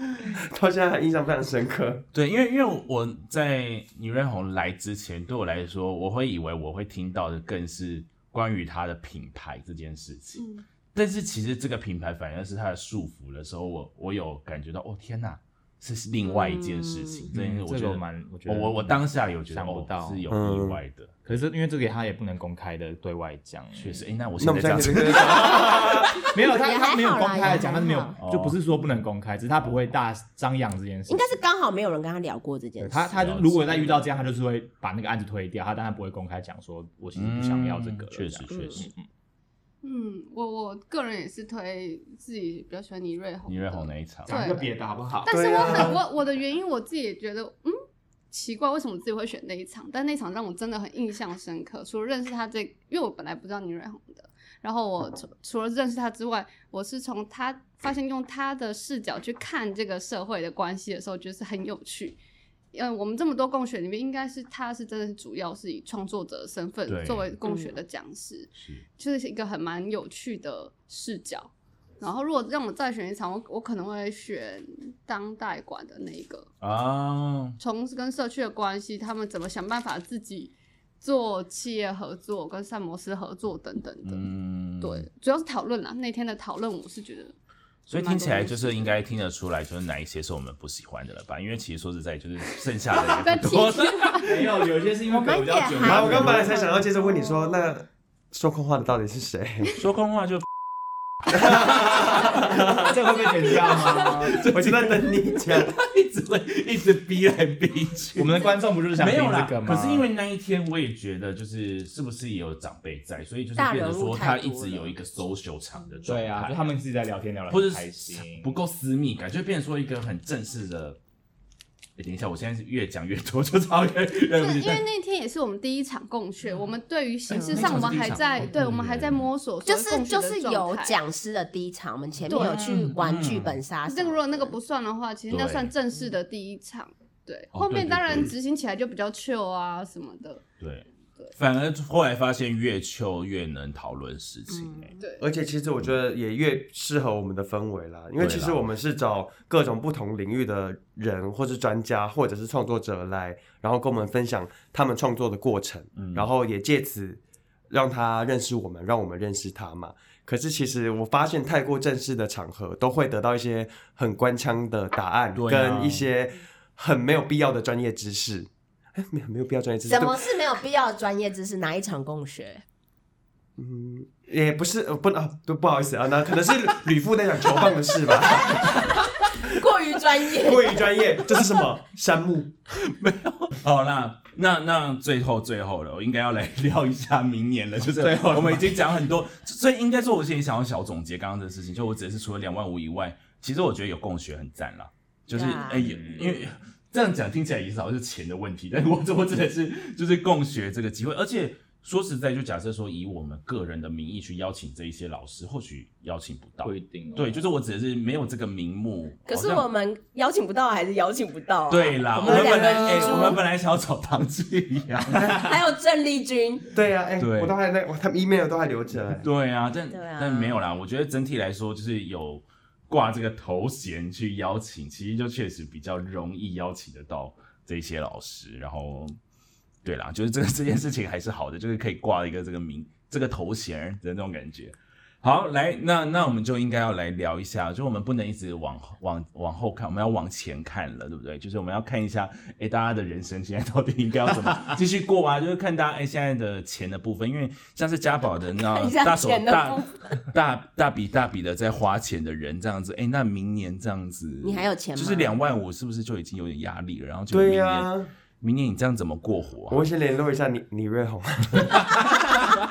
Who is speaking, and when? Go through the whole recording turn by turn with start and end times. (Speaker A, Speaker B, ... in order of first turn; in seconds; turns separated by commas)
Speaker A: 0.2-2.0, Speaker B: 2.1-21.4, Speaker C: 10.3-10.6, Speaker D: 16.2-17.2, Speaker E: 17.3-20.2, Speaker A: 20.3-20.8, Speaker E: 21.3-24.0, Speaker B: 23.8-26.1, Speaker A: 24.4-26.1, Speaker E: 25.1-31.4, Speaker D: 26.4-28.2, Speaker B: 28.2-28.6, Speaker D: 31.1-33.1, Speaker E: 32.8-39.0, Speaker B: 33.1-34.0, Speaker B: 37.1-38.9, Speaker D: 38.5-38.9, Speaker C: 39.8-44.7, Speaker B: 43.5-44.3, Speaker E: 44.3-45.9, Speaker C: 45.2-47.8, Speaker A: 45.3-46.0, Speaker C: 48.3-62.2, Speaker C: 62.7-76.5, Speaker B: 66.9-67.3, Speaker D: 67.5-67.7, Speaker B: 68.5-68.8, Speaker B: 76.6-77.6, Speaker C: 77.6-84.3, Speaker B: 84.0-85.1, Speaker C: 84.8-87.3, Speaker B: 87.9-94.5, Speaker C: 87.9-88.9, Speaker C: 92.9-94.3, Speaker E: 94.2-96.5, Speaker D: 95.1-97.7, Speaker A: 95.8-99.7, Speaker B: 99.8-100.5, Speaker A: 101.3-102.9, Speaker B: 101.4-102.5, Speaker E: 102.6-104.3, Speaker B: 103.6-108.4, Speaker A: 104.4-105.8, Speaker E: 108.2-110.0, Speaker B: 109.0-116.7, Speaker D: 113.5-114.9, Speaker E: 116.1-118.5, Speaker B: 117.5-121.0, Speaker B: 122.0-124.8, Speaker C: 124.3-131.0, Speaker D: 127.3-128.1, Speaker B: 127.3-129.2, Speaker D: 129.6-134.6, Speaker C: 132.3-132.9, Speaker B: 132.3-133.6, Speaker C: 133.8-140.4, Speaker B: 135.3-135.7, Speaker B: 137.5-138.3, Speaker B: 140.6-144.9, Speaker D: 144.5-145.0, Speaker C: 145.0-145.2, Speaker A: 145.2-170.2, Speaker B: 148.2-148.6, Speaker B: 155.9-156.3, Speaker B: 165.3-166.1, Speaker D: 169.9-172.6, Speaker A: 173.6-178.7, Speaker D: 178.3-180.9, Speaker A: 180.3-182.5, Speaker B: 182.8-209.7, Speaker E: 188.0-188.8, Speaker D: 195.3-196.3, Speaker E: 195.7-196.4, Speaker E: 206.6-207.4, Speaker D: 209.3-213.4, Speaker B: 211.7-215.4, Speaker D: 215.2-216.7, Speaker A: 216.7-219.2, Speaker B: 217.2-217.5, Speaker B: 219.2-229.2, Speaker D: 219.9-220.6, Speaker B: 229.8-259.8, Speaker D: 248.5-250.1, Speaker D: 254.4-255.4, Speaker A: 257.3-258.1, Speaker A: 259.7-261.9, Speaker E: 262.0-262.4